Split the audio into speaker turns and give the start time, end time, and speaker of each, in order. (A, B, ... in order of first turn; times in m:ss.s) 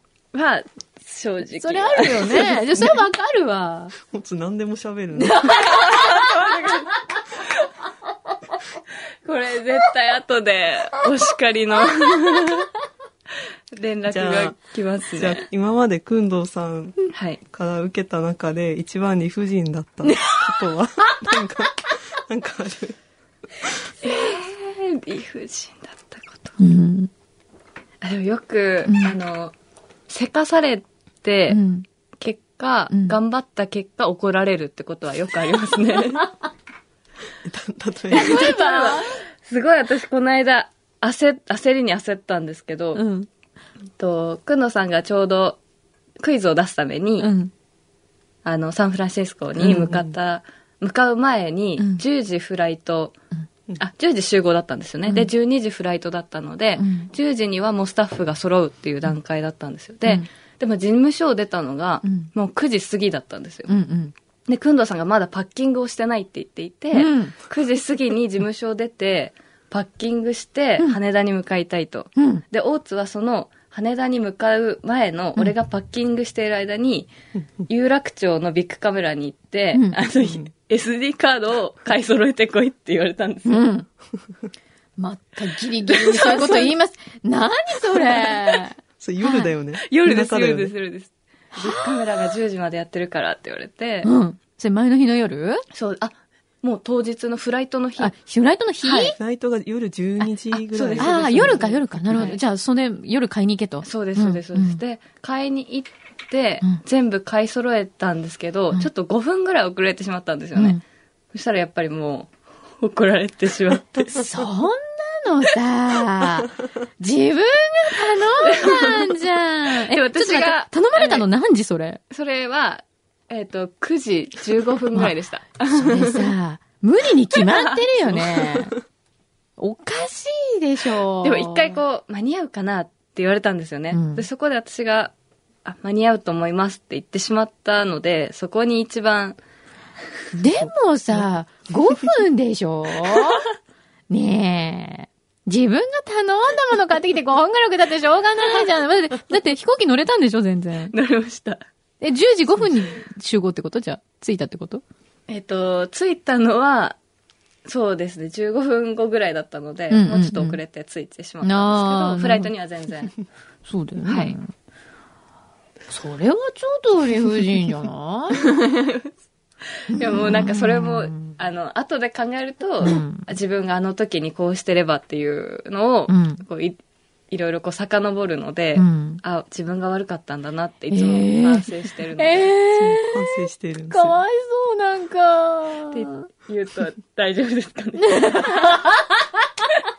0:00.3-0:02.6 A
0:01.6-0:04.0 B
0:04.0-0:05.6 C
0:05.2-0:06.3 B
0:05.5-0:07.0 A
0:09.2-0:12.7 A
0:13.7-0:15.4 A
0:14.1-0:14.6 C
0:15.2-0:23.0 C
0:17.1-0:17.4 A
0:24.0-0:26.6 A
0:26.6-0:27.1 B
0:28.0-0:29.5 A
0:28.9-0:29.1 B
0:30.1-0:31.6 A
0:31.5-0:31.8 B
0:32.2-0:36.3 A
0:32.9-0:33.2 B
0:37.4-0:38.5 C
0:38.1-0:39.2 B
0:38.1-0:43.0 A
0:43.0-0:43.3 B
0:44.0-0:45.6 A
0:46.2-0:47.3 A
0:47.2-0:47.5 B
0:48.4-0:53.2 A
0:49.7-0:50.0 C
0:51.8-0:52.0 B
0:53.8-1:03.7 A
0:56.8-0:57.1 B
1:02.0-1:02.3 B
1:03.7-1:04.1 B
1:04.5-1:17.1 A
1:06.9-1:07.4 B
1:12.2-1:12.4 B
1:17.7-1:23.6 A
1:19.7-1:20.0 B
1:20.2-1:20.5 C
1:23.5-1:23.9 B
1:25.0-1:29.5 B
1:25.9-1:26.7 A
1:28.0-1:28.5 A
1:29.0-1:30.7 C
1:29.8-1:34.1 A
1:31.5-1:32.1 B
1:34.0-1:35.6 B
1:35.7-1:38.1 A
1:38.0-1:39.2 B
1:38.8-1:39.1 A
1:39.2-1:42.3 C
1:40.7-1:42.4 A
1:41.0-1:44.8 B
1:43.8-1:50.8 A
1:50.6-1:50.8 B
1:51.3-1:54.2 A
1:54.1-2:02.0 B
1:58.4-1:59.2 A
1:59.9-2:01.3 A
2:02.1-2:06.3 A
2:05.7-2:08.8 B
2:07.4-2:08.2 A
2:09.6-2:11.8 B
2:11.2-2:15.1 A
2:13.9-2:14.3 B
2:15.6-2:19.4 A
2:20.3-2:23.5 B
2:24.1-2:30.9 B
2:30.9-2:31.6 A
2:32.0-2:34.8 B
2:35.3-2:37.0 A
2:37.7-2:43.2 A
2:39.9-2:40.6 B
2:41.4-2:42.5 B
2:43.7-2:44.5 B
2:44.1-2:44.4 A
2:45.9-2:48.4 B
2:48.4-2:49.1 A
2:49.9-2:51.4 B
2:49.9-2:56.8 A
2:52.8-2:53.3 B
2:56.1-2:56.4 B
2:57.3-3:02.5 A
2:58.8-2:59.2 B
3:00.9-3:06.2 B
3:02.7-3:04.2 C
3:05.9-3:08.8 A
3:08.0-3:09.6 B